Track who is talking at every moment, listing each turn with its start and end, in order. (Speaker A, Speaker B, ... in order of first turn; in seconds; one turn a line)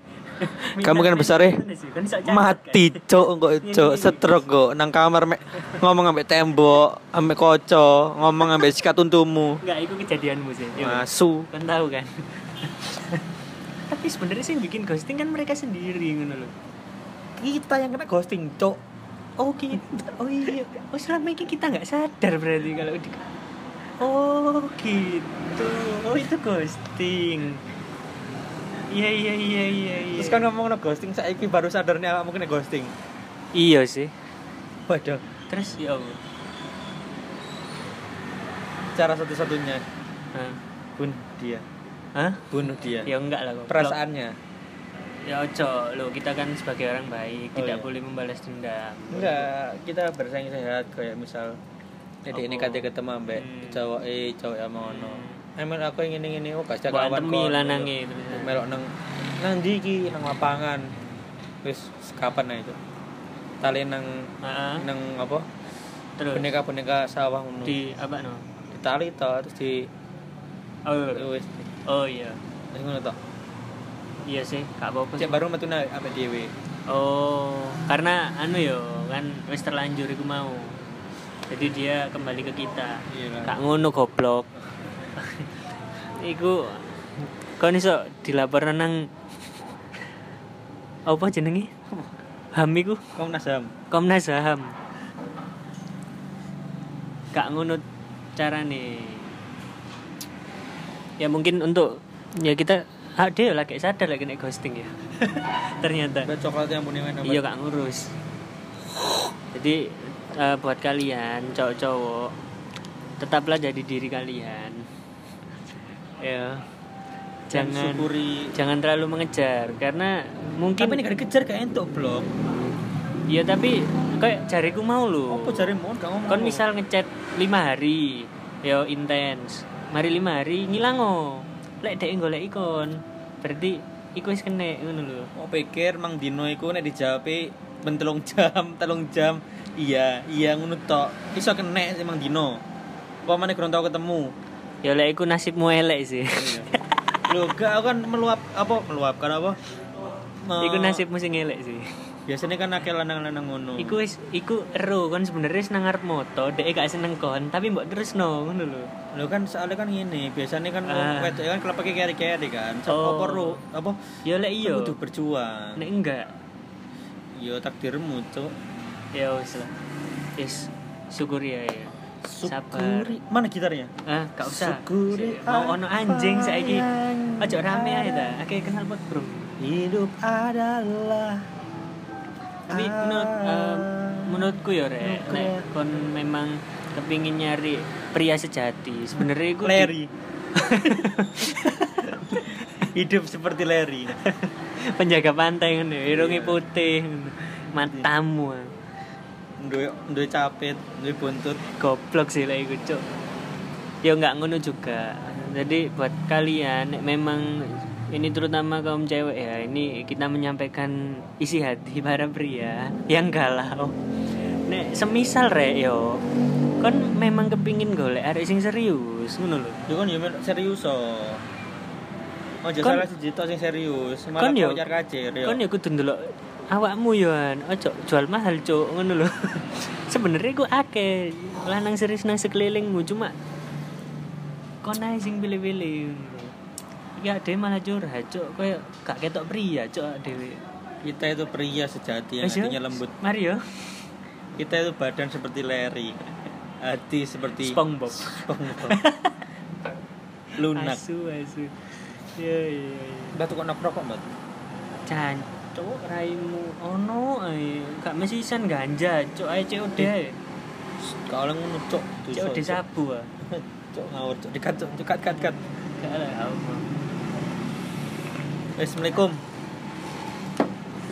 Speaker A: 0.4-3.1
Speaker B: 0.5-1.6
Speaker B: 2.2-9.6
Speaker A: 3.6-4.4
Speaker A: 9.6-13.2
Speaker B: 10.8-11.5
Speaker A: 13.9-16.5
Speaker B: 17.4-18.8
Speaker A: 19.4-23.3
Speaker A: 24.0-27.6
Speaker A: 28.9-30.4
Speaker B: 30.1-32.9
Speaker A: 33.5-34.1
Speaker B: 34.9-35.2
Speaker A: 35.5-36.2
Speaker B: 39.0-39.8
Speaker A: 40.3-40.6
Speaker B: 41.0-41.6
Speaker A: 42.1-42.5
Speaker B: 42.5-43.1
Speaker A: 43.1-44.0
Speaker B: 43.7-44.4
Speaker A: 45.2-49.5
Speaker B: 47.5-47.9
Speaker B: 49.1-51.6
Speaker B: 52.3-60.9
Speaker A: 52.3-53.8
Speaker A: 54.8-55.4
Speaker A: 56.9-58.5
Speaker B: 61.6-62.8
Speaker B: 63.6-65.5
Speaker A: 64.4-64.9
Speaker A: 66.2-66.5
Speaker B: 66.3-67.8
Speaker A: 67.7-68.5
Speaker B: 68.7-69.9
Speaker A: 70.9-71.3
Speaker B: 71.1-71.7
Speaker A: 71.9-72.4
Speaker B: 72.7-73.2
Speaker A: 74.3-75.4
Speaker B: 75.2-76.5
Speaker A: 76.9-80.8
Speaker A: 81.5-84.5
Speaker B: 83.1-83.5
Speaker A: 85.2-85.6
Speaker A: 86.1-86.9
Speaker A: 87.6-89.1
Speaker A: 91.1-91.7
Speaker A: 92.5-93.0
Speaker B: 93.2-93.7
Speaker A: 93.9-94.8
Speaker A: 97.3-97.8
Speaker A: 98.4-99.3
Speaker A: 101.2-106.3
Speaker B: 106.2-107.4
Speaker A: 107.2-108.1
Speaker A: 109.5-112.4
Speaker A: 113.2-114.9
Speaker A: 116.2-116.7
Speaker A: 117.5-121.0
Speaker B: 117.5-118.5
Speaker B: 120.8-122.3
Speaker A: 123.3-125.7
Speaker B: 125.3-126.6
Speaker A: 126.3-135.3
Speaker B: 135.4-142.6
Speaker B: 143.3-144.3
Speaker A: 144.8-147.2
Speaker B: 146.3-146.7
Speaker B: 147.3-149.6
Speaker B: 150.4-151.0
Speaker A: 150.6-151.9
Speaker B: 152.3-154.0
Speaker A: 153.8-158.9
Speaker B: 159.1-164.0
Speaker A: 160.9-161.4
Speaker A: 162.9-163.6
Speaker A: 164.2-165.0
Speaker B: 164.6-165.9
Speaker A: 165.8-166.3
Speaker B: 167.3-168.5
Speaker A: 169.1-169.8
Speaker A: 170.4-171.9
Speaker B: 172.2-173.9
Speaker A: 172.4-173.2
Speaker A: 174.1-176.9
Speaker B: 174.4-178.4
Speaker A: 177.4-179.6
Speaker B: 179.6-181.5
Speaker B: 182.7-185.7
Speaker A: 182.7-189.9
Speaker B: 189.2-190.1
Speaker A: 190.5-192.9
Speaker B: 190.9-194.2
Speaker A: 194.2-198.7
Speaker B: 196.1-196.6
Speaker B: 197.7-198.1
Speaker B: 199.6-201.6
Speaker A: 201.8-203.0
Speaker A: 204.0-216.2
Speaker A: 216.8-219.8
Speaker B: 219.9-221.4
Speaker B: 222.6-225.6
Speaker A: 222.8-223.1
Speaker A: 224.4-224.8
Speaker A: 225.4-233.3
Speaker A: 234.8-236.6
Speaker A: 237.2-240.6
Speaker B: 241.0-243.1
Speaker A: 242.4-243.6
Speaker B: 244.6-246.2
Speaker B: 246.8-249.0
Speaker A: 247.6-249.5
Speaker B: 250.6-251.0
Speaker A: 250.7-251.8
Speaker A: 252.4-253.4
Speaker B: 253.3-254.3
Speaker A: 255.1-260.4
Speaker B: 261.0-262.8
Speaker A: 262.3-263.3
Speaker B: 263.5-265.6
Speaker A: 266.0-266.9
Speaker B: 268.8-269.4